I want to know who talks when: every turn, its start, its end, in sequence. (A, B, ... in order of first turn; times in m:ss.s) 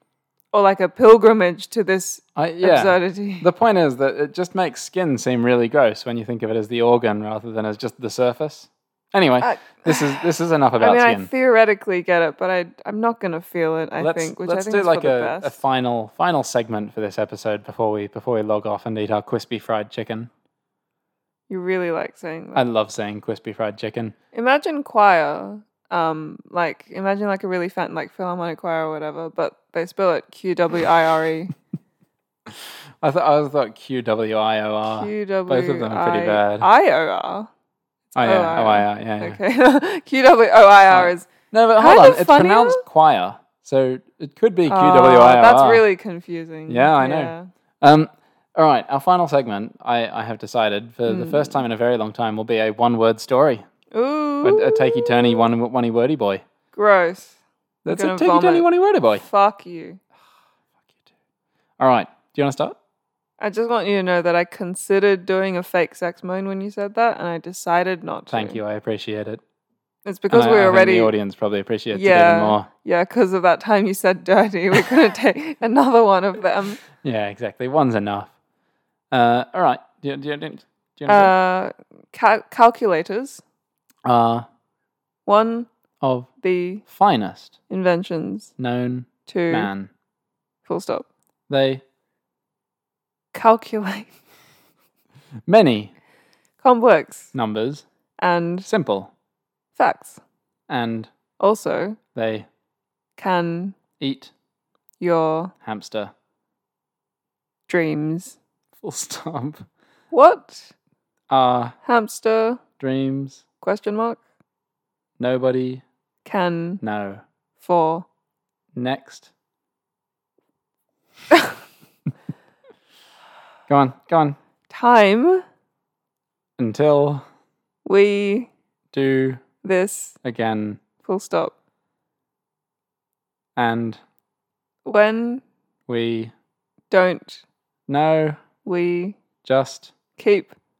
0:00.5-0:03.5 A
0:02.4-0:11.3 B
0:09.4-0:10.2 A
0:10.8-0:15.6 A
0:14.0-0:20.3 B
0:21.5-0:22.6 A
0:22.5-0:24.1 B
0:24.3-0:31.5 A
0:33.0-0:36.7 B
0:34.9-0:37.5 A
0:38.2-0:39.4 B
0:38.2-0:42.8 A
0:40.9-0:45.8 B
0:44.7-0:47.5 A
0:46.7-0:53.6 B
0:51.0-0:51.6 A
0:53.9-0:55.4 A
0:54.4-0:56.4 B
0:56.7-0:57.4 A
0:57.8-0:59.2 B
0:57.9-1:00.0 A
1:01.8-1:02.8 B
1:03.4-1:08.6 A
1:08.3-1:09.4 B
1:10.0-1:11.2 A
1:10.3-1:12.7 B
1:11.9-1:16.8 A
1:17.0-1:18.3 B
1:19.1-1:21.3 B
1:21.1-1:23.4 A
1:24.0-1:24.4 B
1:25.2-1:25.7 A
1:26.0-1:26.3 B
1:26.4-1:26.8 A
1:26.8-1:27.5 B
1:27.7-1:28.5 A
1:28.6-1:29.9 B
1:29.3-1:29.7 A
1:30.6-1:31.0 A
1:31.5-1:31.8 B
1:33.3-1:34.1 A
1:35.5-1:35.9 B
1:36.6-1:37.3 A
1:37.3-1:37.8 B
1:38.2-1:38.7 A
1:38.7-1:39.1 B
1:39.7-1:40.2 A
1:40.7-1:41.1 B
1:41.4-1:42.0 A
1:42.1-1:42.5 B
1:43.2-1:43.8 A
1:44.0-1:44.3 B
1:45.0-1:45.5 A
1:45.6-1:46.1 B
1:47.7-1:48.4 A
1:48.8-1:49.7 B
1:50.1-1:50.7 A
1:51.3-1:51.7 B
1:51.8-1:52.6 A
1:52.8-1:53.4 B
1:53.6-1:54.2 A
1:55.2-1:55.8 B
1:56.2-1:56.8 A
1:56.8-1:57.2 B
1:57.6-1:58.0 A
1:58.7-1:59.3 B
2:03.7-2:04.4 B
2:04.7-2:05.4 A
2:06.6-2:07.2 B
2:07.8-2:08.5 A
2:08.9-2:09.4 B
2:09.6-2:10.2 A
2:10.2-2:10.8 B
2:11.0-2:11.5 A
2:13.6-2:14.0 B
2:14.8-2:15.4 A
2:15.9-2:16.3 B
2:16.9-2:17.4 A
2:17.9-2:18.4 B
2:18.6-2:19.2 A
2:19.4-2:19.9 B
2:20.2-2:20.5 A